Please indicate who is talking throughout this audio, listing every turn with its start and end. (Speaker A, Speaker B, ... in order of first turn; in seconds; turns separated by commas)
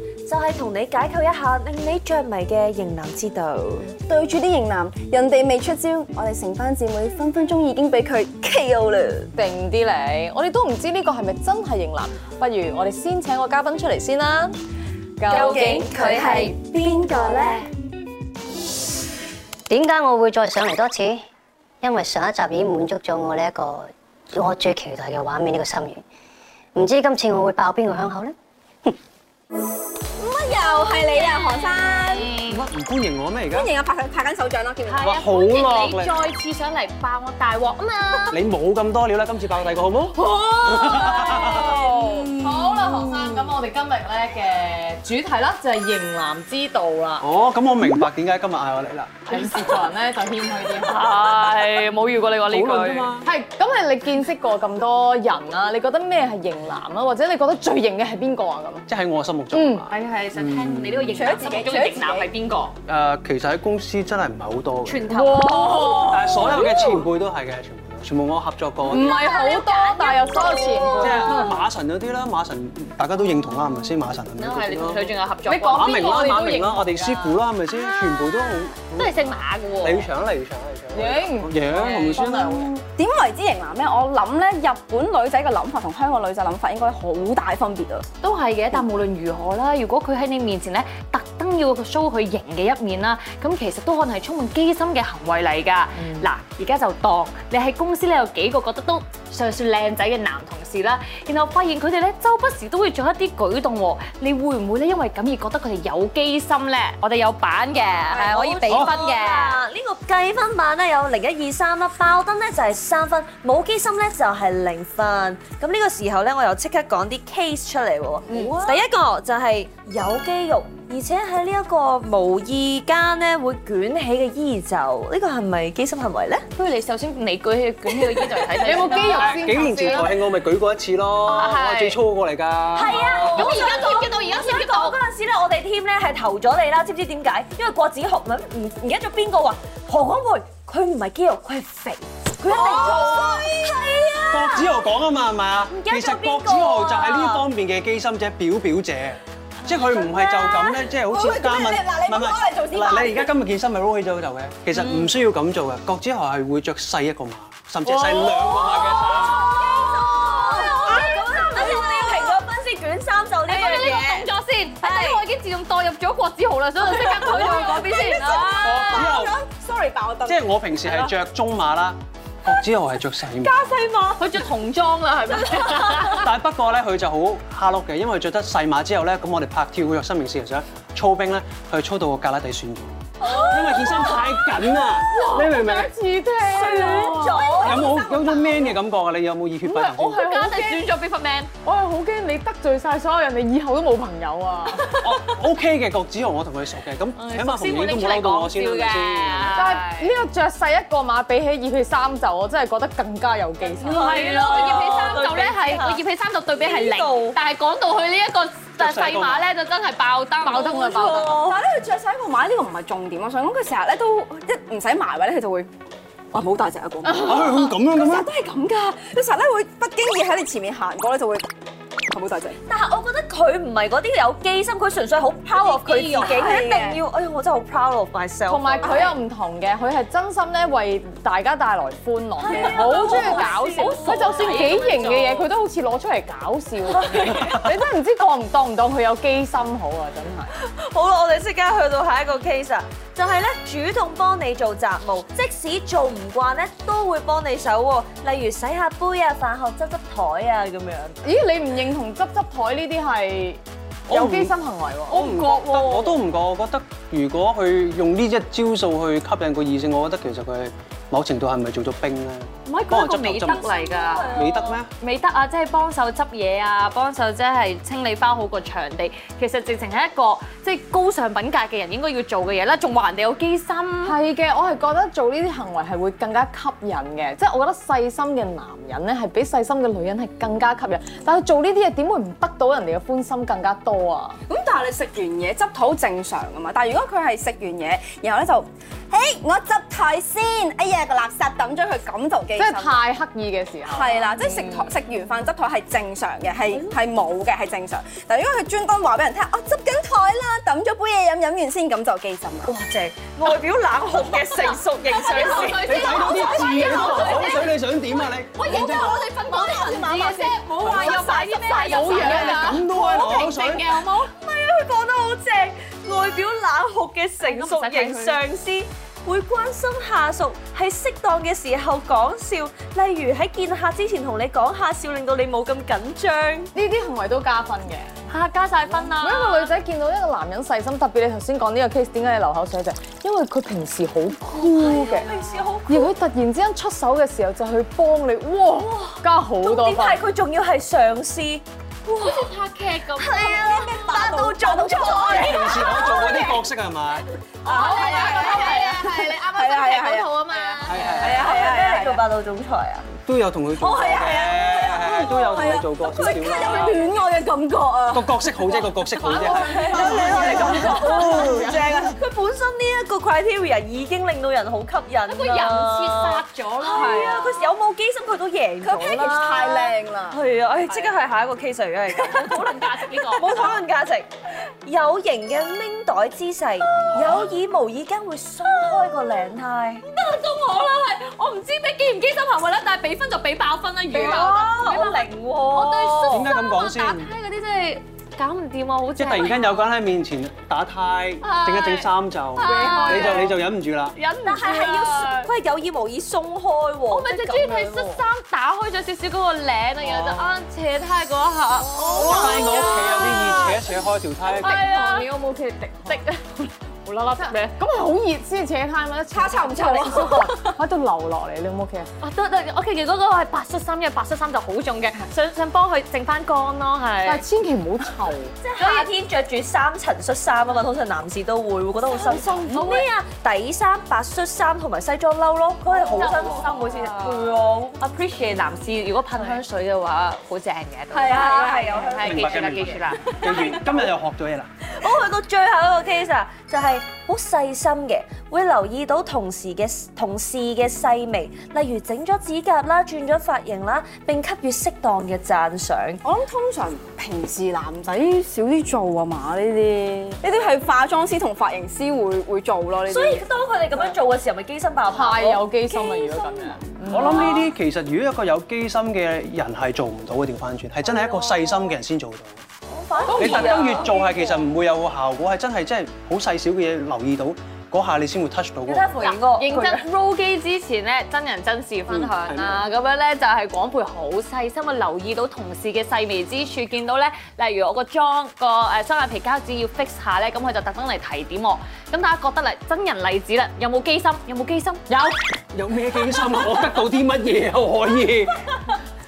Speaker A: 0.3-3.9, Speaker B: 4.0-9.3, Speaker C: 9.4-14.6, Speaker C: 15.2-15.9, Speaker A: 15.3-17.7, Speaker B: 15.3-17.4, Speaker D: 19.7-21.2, Speaker D: 21.8-26.0, Speaker D: 26.8-28.3, Speaker B: 30.2-32.3, Speaker E: 31.1-32.7, Speaker F: 32.5-33.7, Speaker B: 33.5-35.1, Speaker E: 34.9-38.4, Speaker F: 35.0-36.2, Speaker F: 38.3-41.7, Speaker E: 40.3-42.0, Speaker B: 41.3-42.5, Speaker C: 42.4-47.2, Speaker F: 47.2-49.4, Speaker C: 49.3-51.1, Speaker E: 50.8-53.1, Speaker F: 52.5-53.3, Speaker C: 53.2-58.9, Speaker F: 58.9-61.0, Speaker C: 59.5-59.9, Speaker E: 59.9-62.8, Speaker B: 61.1-62.3, Speaker F: 62.9-65.1, Speaker E: 64.8-66.9, Speaker C: 65.1-67.0, Speaker F: 65.8-69.2, Speaker C: 68.9-71.6, Speaker E: 68.9-71.6, Speaker F: 71.0-75.2, Speaker E: 74.4-76.3, Speaker C: 75.5-77.4, Speaker F: 75.7-82.5, Speaker E: 77.7-80.1, Speaker C: 80.9-82.8, Speaker E: 81.7-82.2, Speaker B: 82.5-88.0, Speaker E: 88.2-109.6, Speaker A: 108.1-126.5, Speaker F: 108.7-109.0, Speaker E: 126.6-130.2, Speaker C: 128.6-130.1, Speaker F: 129.0-133.7, Speaker E: 131.2-132.0, Speaker A: 132.7-144.8, Speaker E: 133.2-135.0, Speaker B: 142.5-143.6, Speaker F: 144.3-159.5, Speaker A: 145.7-147.5, Speaker B: 150.0-153.3, Speaker B: 157.9-158.4, Speaker A: 158.5-165.3, Speaker B: 159.3-162.4, Speaker E: 160.2-162.3, Speaker E: 163.5-169.1, Speaker B: 167.1-171.1, Speaker A: 167.2-167.8, Speaker F: 168.6-169.4, Speaker F: 170.2-173.6, Speaker B: 173.4-174.2, Speaker E: 174.2-176.3, Speaker F: 176.0-185.9, Speaker A: 183.2-184.2, Speaker C: 185.1-188.3, Speaker A: 186.5-187.8, Speaker F: 187.6-190.2, Speaker C: 189.7-190.8, Speaker E: 190.2-191.5, Speaker C: 191.6-194.9, Speaker E: 194.7-195.3, Speaker F: 195.0-199.6, Speaker E: 197.2-200.1, Speaker C: 199.5-204.4, Speaker A: 203.8-206.0, Speaker E: 203.9-211.2, Speaker B: 204.1-205.1, Speaker A: 206.6-207.4, Speaker F: 208.8-209.5, Speaker B: 210.4-215.7, Speaker A: 211.0-211.6, Speaker B: 216.3-221.5, Speaker F: 217.2-218.3, Speaker B: 222.1-222.6, Speaker A: 222.7-229.1, Speaker E: 225.5-226.4, Speaker B: 226.2-227.0, Speaker C: 228.5-240.5, Speaker B: 228.8-229.1, Speaker A: 232.4-234.5, Speaker B: 232.5-233.4, Speaker E: 232.8-235.5, Speaker A: 236.9-237.5, Speaker A: 240.6-251.2, Speaker C: 251.2-255.2, Speaker F: 254.1-254.5, Speaker E: 255.1-256.2, Speaker F: 255.1-263.7, Speaker E: 262.7-264.4, Speaker A: 263.6-264.8, Speaker F: 264.3-264.9, Speaker E: 265.0-274.2, Speaker C: 274.0-284.4, Speaker B: 284.5-293.0, Speaker C: 292.6-294.9, Speaker B: 293.9-302.7, Speaker A: 302.6-306.0, Speaker E: 305.1-307.8, Speaker F: 305.7-309.2, Speaker E: 308.5-314.3, Speaker B: 309.4-312.8, Speaker F: 310.9-311.1, Speaker C: 311.8-312.8, Speaker F: 312.4-314.0, Speaker A: 314.2-326.7, Speaker E: 317.4-318.4, Speaker C: 326.7-328.1, Speaker E: 328.3-329.7, Speaker C: 329.1-335.3, Speaker A: 334.6-336.1, Speaker C: 335.9-340.2, Speaker A: 338.8-341.6, Speaker E: 342.1-344.0, Speaker A: 343.2-346.6, Speaker B: 343.5-345.7, Speaker F: 345.2-347.2, Speaker E: 347.6-351.5, Speaker A: 347.7-348.5, Speaker B: 347.7-352.2, Speaker F: 350.9-351.5, Speaker A: 351.4-353.1, Speaker F: 353.2-357.0, Speaker B: 353.8-358.5, Speaker F: 358.1-360.5, Speaker C: 359.2-362.0, Speaker E: 359.2-361.0, Speaker B: 359.5-362.1, Speaker A: 359.7-374.3, Speaker E: 365.3-367.5, Speaker B: 366.9-367.7, Speaker B: 368.8-370.4, Speaker E: 370.9-371.2, Speaker E: 372.2-373.6, Speaker B: 373.4-373.8, Speaker A: 374.8-380.1, Speaker E: 380.0-389.9, Speaker A: 384.1-386.4, Speaker F: 386.3-387.3, Speaker F: 389.2-394.2, Speaker E: 391.4-393.6, Speaker C: 392.6-393.5, Speaker E: 394.2-395.5, Speaker A: 394.4-398.2, Speaker E: 397.1-403.9, Speaker F: 400.0-400.6, Speaker F: 402.0-404.7, Speaker B: 402.1-402.9, Speaker C: 404.5-406.2, Speaker E: 404.5-405.3, Speaker E: 406.1-407.7, Speaker C: 407.4-412.1, Speaker B: 409.3-410.6, Speaker E: 412.2-417.4, Speaker C: 417.3-418.5, Speaker A: 418.6-428.0, Speaker E: 418.8-419.1, Speaker B: 422.1-423.0, Speaker E: 422.5-423.0, Speaker C: 422.6-422.9, Speaker E: 425.9-433.7, Speaker A: 431.1-432.7, Speaker F: 432.1-434.7, Speaker A: 434.9-446.2, Speaker B: 446.2-454.2, Speaker A: 453.1-455.6, Speaker C: 455.1-457.6, Speaker B: 455.4-457.5, Speaker F: 457.1-462.6, Speaker A: 462.9-464.2, Speaker E: 463.2-464.5, Speaker F: 463.4-469.2, Speaker A: 468.9-470.1, Speaker E: 469.2-485.0, Speaker F: 472.1-472.9, Speaker C: 485.1-485.4, Speaker F: 485.7-488.9